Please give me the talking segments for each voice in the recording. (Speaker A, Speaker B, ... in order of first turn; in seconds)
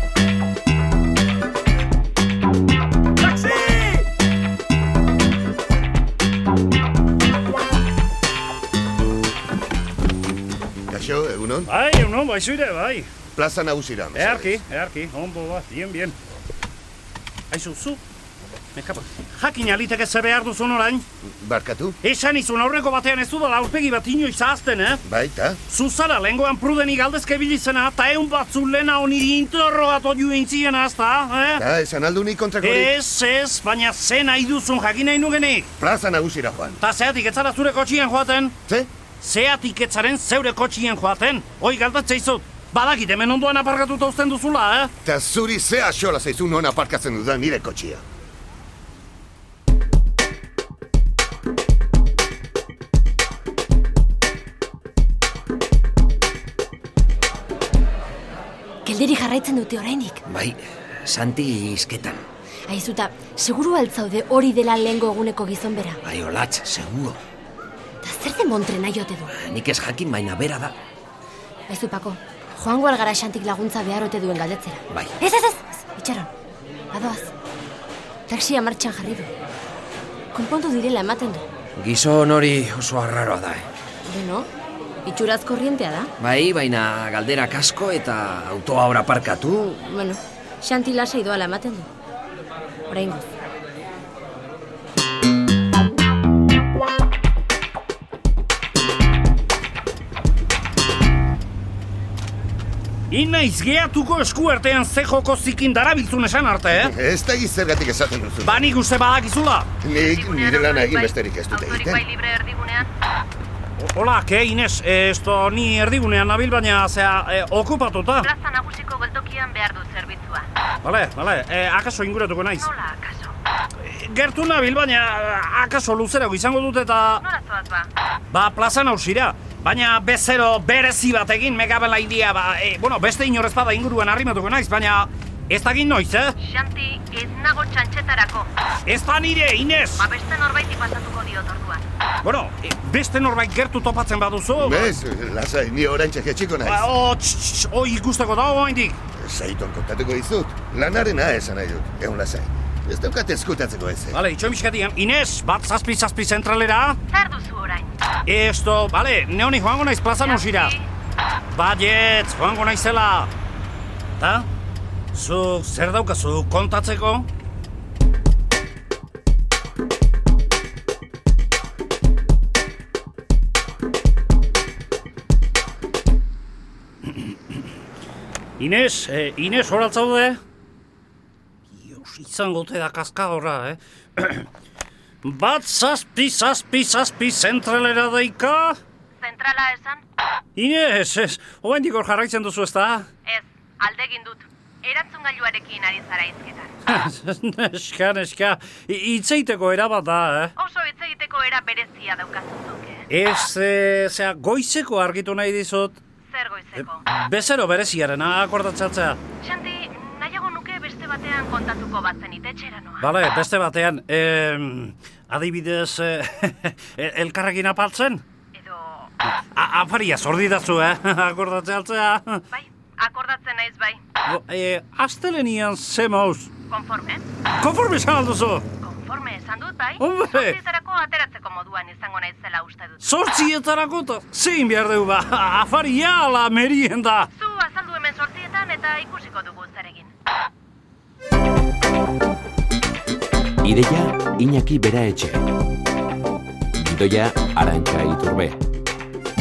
Speaker A: 3.4-3.9, 11.7-13.1, 14.2-16.2, 17.5-18.0, 18.8-21.1, 22.0-25.0, 25.7-31.6, 32.6-35.7, 36.8-38.5, 39.2-44.9, 103.1-106.9, 108.4-109.7, 113.8-118.3, 120.8-122.7, 123.8-127.2, 128.3-136.4, 138.9-140.1, 142.2-144.9, 146.7-149.0, 154.1-157.0, 158.2-160.8, 161.5-163.3, 164.2-164.5, 165.1-167.3, 177.1-177.4, 178.6-180.4, 181.7-184.5, 185.2-188.8, 190.6-193.1, 196.9-200.5, 203.1-206.0, 207.1-209.2, 213.0-218.2, 219.5-222.4, 224.2-226.5, 227.6-228.7, 230.0-230.6, 233.0-237.3
Speaker B: 10.9-11.7, 13.3-14.6, 21.2-22.0, 25.0-25.6, 31.6-32.9, 35.8-36.8, 45.0-48.0, 106.7-108.7, 109.8-112.0, 144.6-146.9, 149.2-154.2
Speaker C: 58.9-60.2, 62.7-66.0, 68.0-69.3, 71.7-76.3, 76.9-77.3, 78.3-79.3, 80.3-81.4, 84.1-84.5, 85.1-86.1, 89.9-91.9, 92.9-93.2
Speaker D: 60.3-62.2, 66.0-67.2, 69.3-70.8, 74.9-75.2, 81.8-83.7, 86.2-89.9
Speaker E: 110.0-112.9, 118.2-120.5, 122.6-123.3, 127.2-127.9, 136.4-138.5, 140.0-141.8, 157.1-157.9, 160.2-160.9, 189.2-190.0, 193.2-196.7, 200.6-203.1, 206.3-207.0, 209.4-213.1, 218.5-219.1, 222.5-224.0, 226.7-227.2, 228.8-233.2, 237.3-240.1
Speaker F: 243.6-245.4, 246.8-248.6